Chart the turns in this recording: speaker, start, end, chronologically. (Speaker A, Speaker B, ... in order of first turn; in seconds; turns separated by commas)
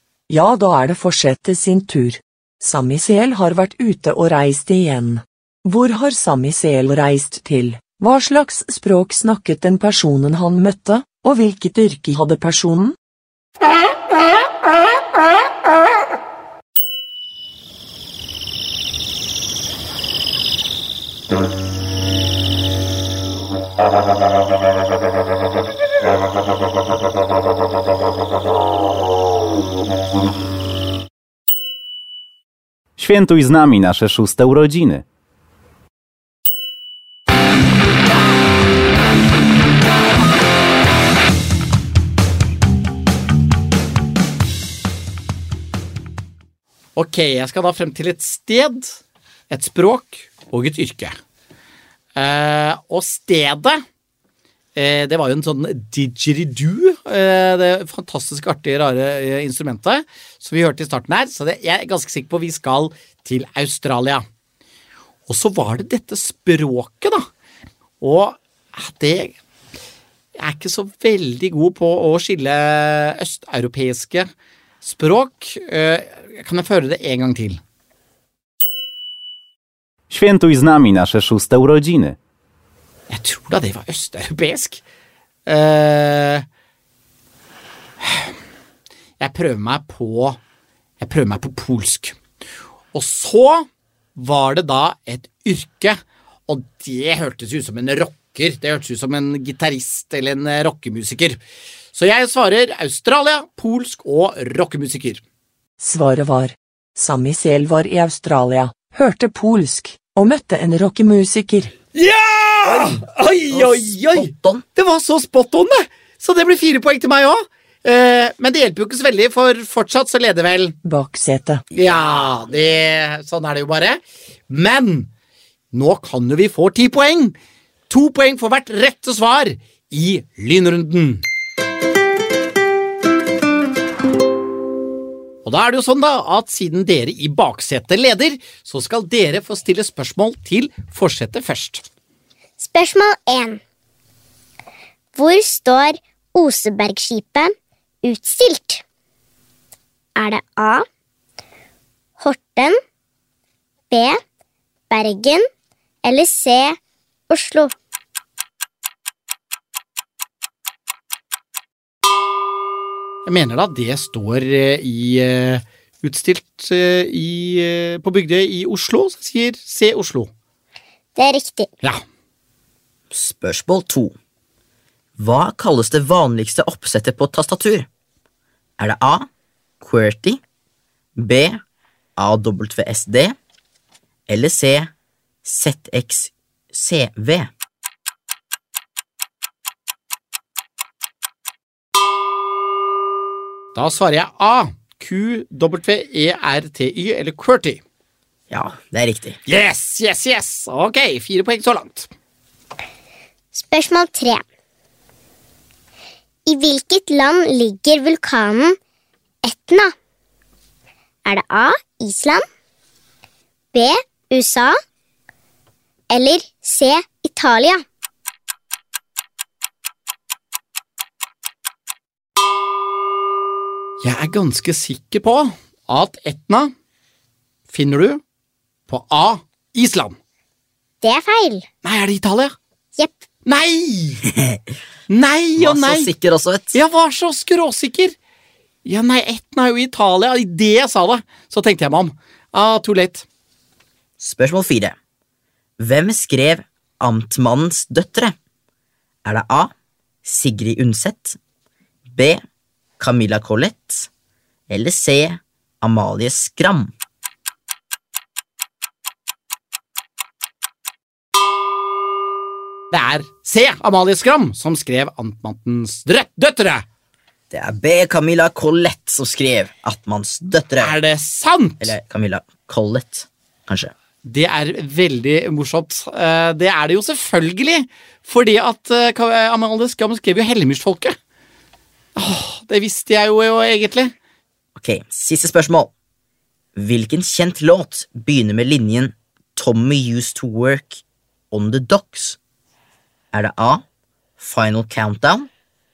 Speaker A: 0.3-13.0, Speaker B: 33.0-35.0, Speaker C: 47.0-49.0, Speaker C: 49.5-51.2, Speaker C: 52.1-53.8, Speaker C: 54.8-64.2, Speaker C: 65.3-67.3, Speaker C: 68.0-69.4, Speaker C: 70.4-74.3, Speaker C: 74.8-77.6, Speaker B: 80.1-82.2, Speaker C: 83.1-84.8, Speaker C: 85.5-86.5, Speaker C: 88.0-88.3, Speaker C: 89.2-90.4, Speaker C: 91.0-92.2, Speaker C: 92.9-101.4, Speaker C: 101.9-105.2, Speaker A: 105.8-111.7, Speaker C: 111.9-120.8, Speaker D: 112.7-114.7, Speaker A: 120.8-121.6, Speaker C: 121.7-125.1, Speaker C: 125.7-127.4, Speaker C: 127.9-131.2, Speaker C: 135.4-141.8, Speaker E: 142.6-143.6, Speaker E: 145.2-147.5, Speaker E: 148.0-148.8, Speaker E: 150.2-150.9, Speaker E: 152.2-152.8, Speaker E: 153.9-154.2, Speaker E: 154.9-155.5, Speaker E: 156.0-156.8, Speaker E: 157.3-157.7, Speaker C: 163.2-170.3, Speaker E: 171.2-171.7, Speaker D: 173.1-174.2, Speaker D: 175.2-177.9, Speaker D: 178.8-179.3, Speaker D: 179.8-180.4, Speaker D: 181.2-181.6, Speaker D: 182.2-183.4, Speaker D: 184.3-184.9, Speaker D: 185.4-187.5, Speaker C: 193.7-197.8, Speaker D: 198.5-199.4, Speaker C: 199.5-202.1, Speaker E: 203.5-204.4, Speaker E: 206.5-208.8, Speaker E: 209.4-209.9, Speaker E: 211.2-212.4, Speaker E: 213.7-214.8, Speaker E: 216.1-217.8, Speaker C: 224.0-226.7, Speaker C: 227.7-228.2, Speaker C: 228.9-230.2, Speaker E: 231.0-231.7, Speaker C: 231.8-232.6, Speaker E: 233.0-233.2, Speaker C: 233.5-234.2, Speaker D: 234.3-234.6, Speaker C: 235.1-236.1, Speaker D: 235.6-236.8, Speaker C: 236.7-238.2, Speaker C: 238.8-243.3, Speaker D: 244.2-245.0, Speaker D: 245.8-248.3, Speaker D: 249.2-249.7, Speaker D: 250.2-251.4, Speaker D: 252.1-252.4, Speaker D: 253.0-254.1, Speaker D: 254.7-256.9, Speaker C: 262.9-266.9, Speaker D: 267.5-271.0, Speaker C: 270.8-272.0, Speaker D: 271.8-273.9, Speaker C: 274.2-281.2, Speaker C: 282.2-284.1, Speaker D: 284.8-285.9, Speaker D: 286.8-292.4, Speaker D: 293.3-293.8, Speaker D: 294.4-295.5